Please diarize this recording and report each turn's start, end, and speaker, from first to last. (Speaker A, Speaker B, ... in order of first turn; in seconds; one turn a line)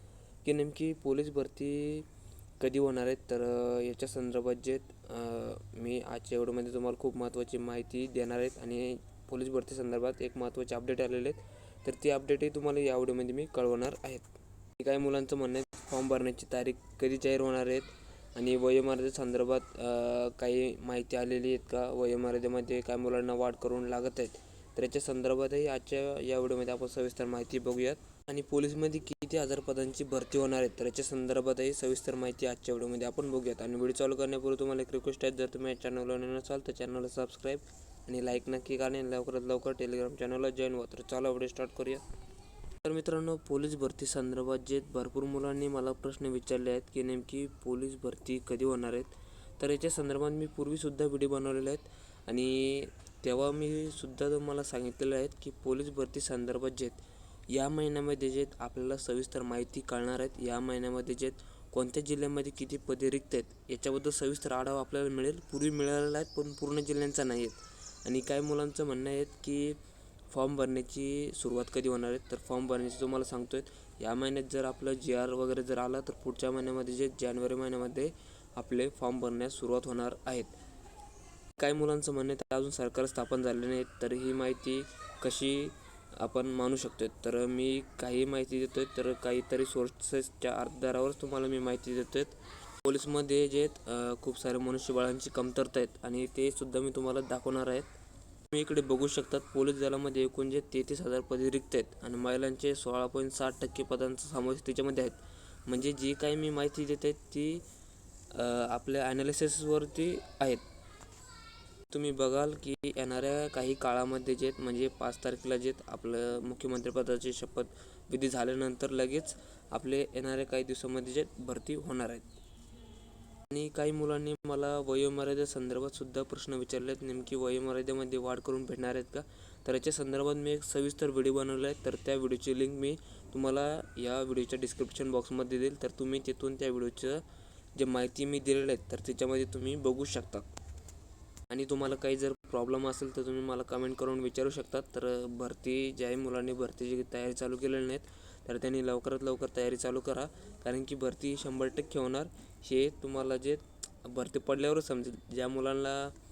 Speaker A: 0.4-2.1
Speaker A: 2.6-42.0
Speaker A: 42.8-69.8
Speaker A: 70.3-80.5
Speaker A: 81.6-97.9
Speaker A: 98.5-107.6
Speaker A: 108.3-110.6
Speaker A: 111.9-122.3
Speaker A: 123.5-137.2
Speaker A: 137.7-140.5
Speaker A: 141.5-156.1